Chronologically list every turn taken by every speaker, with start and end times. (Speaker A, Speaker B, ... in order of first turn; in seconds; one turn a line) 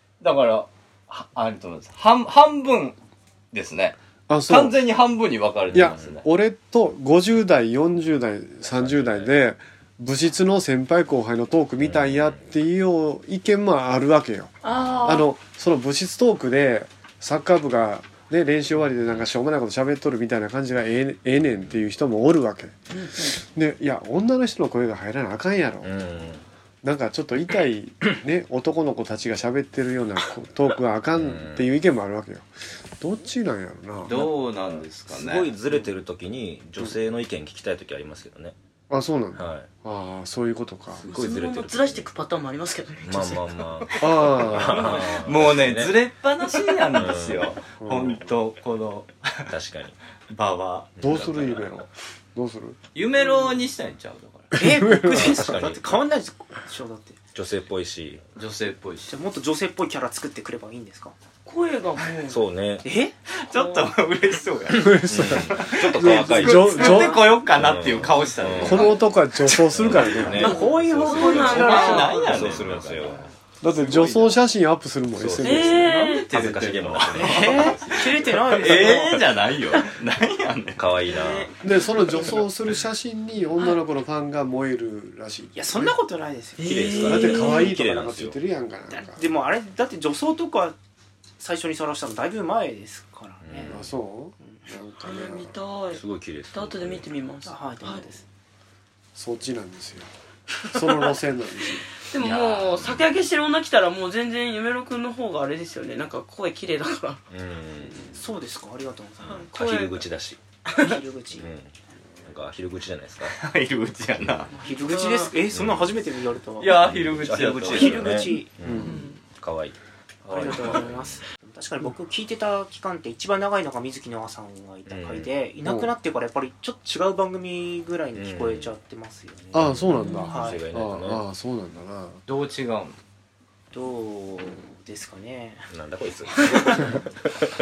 Speaker A: 0.2-3.0
Speaker A: 3.5-6.2
Speaker B: 4.3-4.8
Speaker B: 5.7-25.9
Speaker C: 5.7-6.0
Speaker C: 8.8-9.2
Speaker C: 11.8-12.4
Speaker D: 14.6-15.3
Speaker D: 22.9-23.4
Speaker C: 25.8-26.4
Speaker B: 26.8-32.5
Speaker C: 31.1-31.7
Speaker B: 33.0-34.3
Speaker A: 34.0-35.5
Speaker C: 34.1-38.5
Speaker B: 38.9-41.0
Speaker C: 39.3-39.7
Speaker C: 41.0-42.0
Speaker D: 41.0-45.1
Speaker C: 43.0-45.9
Speaker B: 44.0-45.0
Speaker A: 45.2-49.5
Speaker C: 46.9-47.6
Speaker B: 47.8-48.2
Speaker C: 49.5-50.0
Speaker A: 50.3-51.6
Speaker C: 51.0-51.5
Speaker B: 51.0-52.8
Speaker A: 52.9-54.5
Speaker B: 54.5-55.7
Speaker E: 54.5-57.2
Speaker C: 55.1-56.0
Speaker C: 57.3-58.2
Speaker A: 58.4-59.2
Speaker E: 59.1-61.1
Speaker D: 61.5-62.4
Speaker C: 62.3-62.8
Speaker E: 62.8-63.1
Speaker A: 63.3-69.0
Speaker D: 63.5-63.9
Speaker B: 64.7-67.4
Speaker C: 65.1-69.1
Speaker D: 66.8-67.1
Speaker B: 68.6-70.6
Speaker C: 69.6-73.2
Speaker E: 70.2-72.5
Speaker D: 70.4-72.3
Speaker A: 71.2-74.4
Speaker B: 73.6-76.2
Speaker C: 75.2-78.8
Speaker D: 75.4-76.3
Speaker A: 76.1-80.8
Speaker E: 77.1-79.3
Speaker C: 80.8-81.5
Speaker D: 81.0-81.7
Speaker B: 81.6-86.0
Speaker E: 85.5-87.0
Speaker D: 86.6-87.7
Speaker C: 86.6-88.3
Speaker B: 87.0-89.2
Speaker E: 88.9-90.8
Speaker E: 91.4-93.8
Speaker C: 93.4-93.8
Speaker B: 93.6-95.5
Speaker D: 95.0-98.1
Speaker C: 95.9-97.1
Speaker E: 97.4-98.2
Speaker B: 99.1-100.1
Speaker B: 100.7-101.9
Speaker D: 102.0-107.2
Speaker A: 102.2-103.0
Speaker C: 107.3-108.2
Speaker E: 108.0-109.5
Speaker D: 109.2-110.0
Speaker C: 109.2-110.4
Speaker D: 110.7-111.0
Speaker E: 110.7-111.5
Speaker C: 111.3-111.7
Speaker C: 112.2-113.3
Speaker A: 113.2-114.5
Speaker D: 114.6-115.3
Speaker E: 114.6-116.9
Speaker C: 115.5-116.0
Speaker A: 116.6-118.0
Speaker C: 116.8-121.2
Speaker E: 117.7-118.5
Speaker D: 117.8-119.2
Speaker B: 118.6-119.0
Speaker E: 120.3-129.6
Speaker C: 124.9-125.3
Speaker B: 125.6-125.9
Speaker C: 128.1-128.7
Speaker C: 129.5-131.2
Speaker B: 129.5-132.2
Speaker D: 129.9-130.4
Speaker E: 130.3-130.7
Speaker A: 132.3-133.0
Speaker E: 133.7-135.7
Speaker C: 135.7-137.5
Speaker E: 136.5-136.9